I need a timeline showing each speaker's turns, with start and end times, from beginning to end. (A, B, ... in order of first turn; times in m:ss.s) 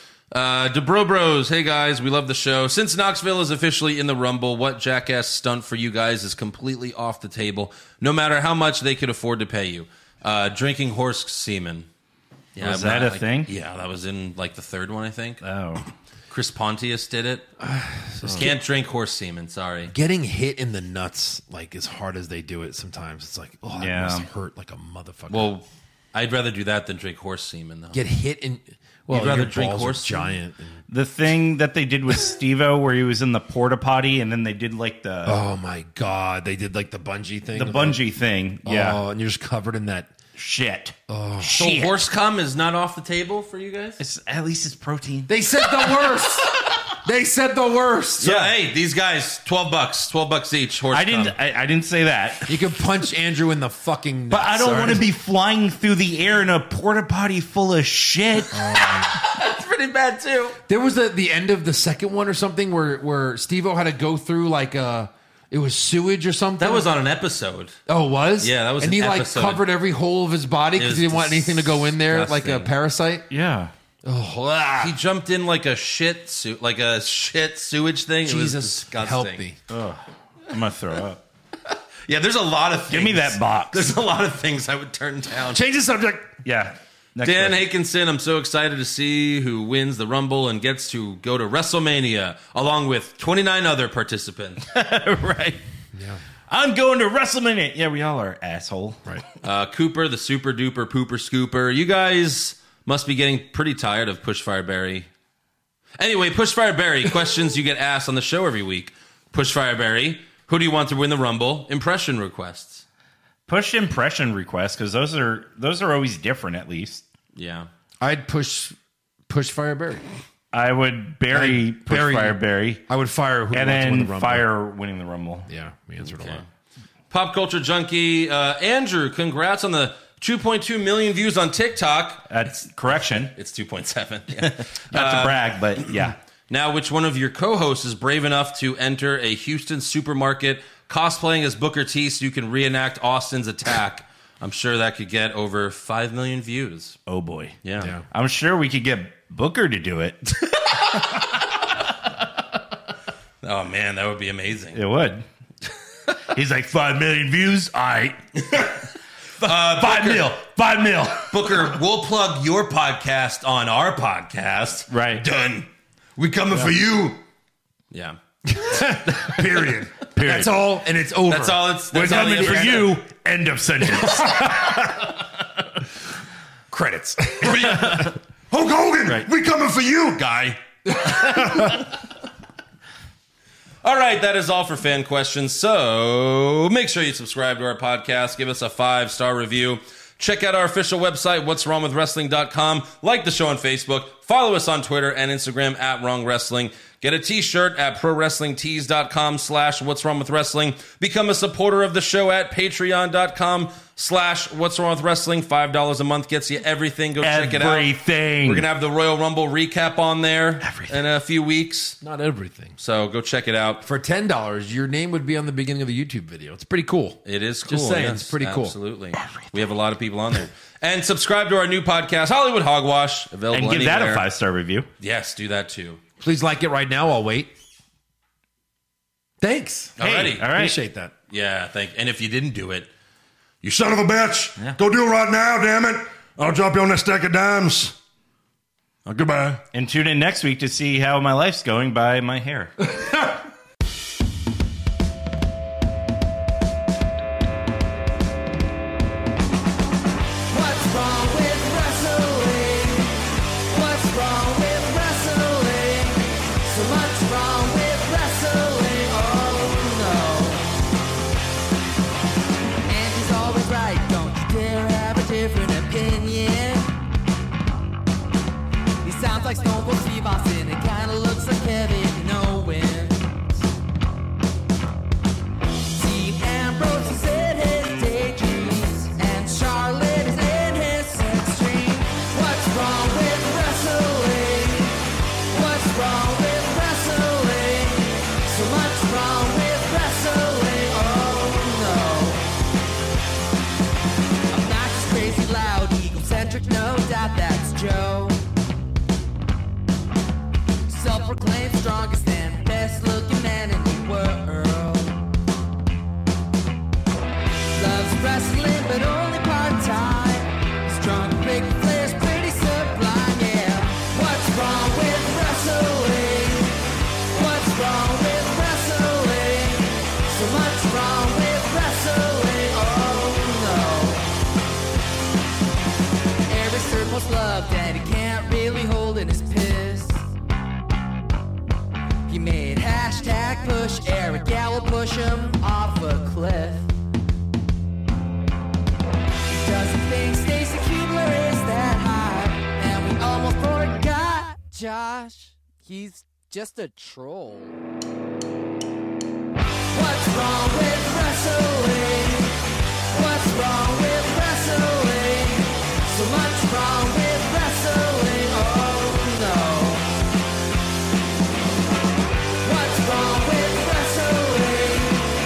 0:00.3-0:11.9 A
0:12.5-0:15.4 A
0:12.6-0:13.5 B
0:15.4-0:15.9 B
0:16.3-0:17.4 A
0:17.6-0:18.6 C
0:18.2-0:18.5 B
0:18.4-0:19.9 A
0:19.9-0:25.5 C
0:23.8-0:24.3 B
0:25.3-0:28.0 A
0:27.9-0:30.8 C
0:29.1-0:30.4 A
0:30.9-0:35.4 B
0:35.2-0:38.0 C
0:37.5-0:39.0 B
0:38.6-0:40.1 C
0:40.4-0:42.0 B
0:41.1-0:41.6 C
0:41.6-0:44.0 A
0:44.0-0:46.7 B
0:45.3-0:48.4 C
0:48.2-0:51.3 A
0:50.9-0:52.7 B
0:52.5-0:55.0 C
0:54.3-0:58.8 B
0:58.5-0:59.1 C
0:59.0-1:00.6 A
1:00.7-1:06.8 C
1:06.6-1:07.8 A
1:07.9-1:13.2 C
1:08.4-1:09.6 A
1:10.8-1:12.7 A
1:13.3-1:13.7 B
1:14.0-1:15.0 C
1:14.8-1:19.4 A
1:18.2-1:19.6 C
1:19.7-1:21.2 B
1:22.0-1:25.6 A
1:22.9-1:23.9 B
1:25.5-1:26.3 C
1:26.4-1:27.6 B
1:27.2-1:34.6 A
1:34.6-1:35.6 B
1:35.9-1:36.2 C
1:36.5-1:39.1 B
1:39.4-1:45.1 A
1:46.0-1:52.8 A
1:53.5-1:57.0 B
1:57.3-1:57.7 A
1:58.0-1:58.8 C
1:59.3-2:00.0 C
2:00.5-2:02.8 B
2:01.3-2:04.5 C
2:03.5-2:05.5 B
2:05.5-2:06.4 C
2:06.0-2:06.4 A
2:07.1-2:27.0 A
2:12.3-2:13.3 B
2:14.4-2:16.2 B
2:27.1-2:30.9 B
2:27.6-2:27.9 A
2:27.8-2:28.0 C
2:33.4-2:34.8 A
2:34.7-2:35.2 B
2:36.2-2:38.6 B
2:38.4-2:38.9 A
2:39.4-2:40.4 A
2:39.4-2:41.5 B
2:41.1-2:47.2 A
2:44.9-2:45.2 B
2:47.9-2:48.2 A
2:48.5-2:53.0 C
2:49.4-2:49.9 D
2:50.1-2:50.6 B
2:51.3-2:53.0 A
2:51.9-2:55.1 B
2:54.1-2:55.0 C
2:56.7-2:58.1 C
2:57.4-2:58.0 D
2:57.7-2:58.1 B
2:58.5-3:00.6 D
3:00.9-3:01.8 C
3:01.2-3:01.6 B
3:03.8-3:32.0 A
3:27.2-3:28.7 B
3:30.7-3:31.0 B
3:32.0-3:32.8 C
3:32.8-3:33.8 A
3:33.8-3:38.7 C
3:37.2-3:44.2 A
3:43.5-3:44.9 B
3:45.0-3:46.0 A
3:46.2-3:47.5 C
3:49.4-3:51.1 C
3:50.0-3:50.5 A
3:50.0-3:50.8 B
3:51.3-3:52.9 A
3:53.6-3:57.9 D
3:59.0-3:59.6 D
3:59.7-4:02.8 B
4:10.5-4:20.7 E
4:22.8-4:26.9 E
4:29.0-4:33.3 E
4:35.9-4:44.9 E
4:45.5-4:52.4 E
4:54.5-4:58.4 E
5:00.9-5:05.2 E
5:07.7-5:16.7 E
5:17.3-5:24.2 E
5:26.5-5:30.2 E
5:32.3-5:36.9 E
5:39.5-5:47.8 E
5:49.9-5:52.5 E
5:53.1-6:00.0 E
6:02.6-6:05.3 E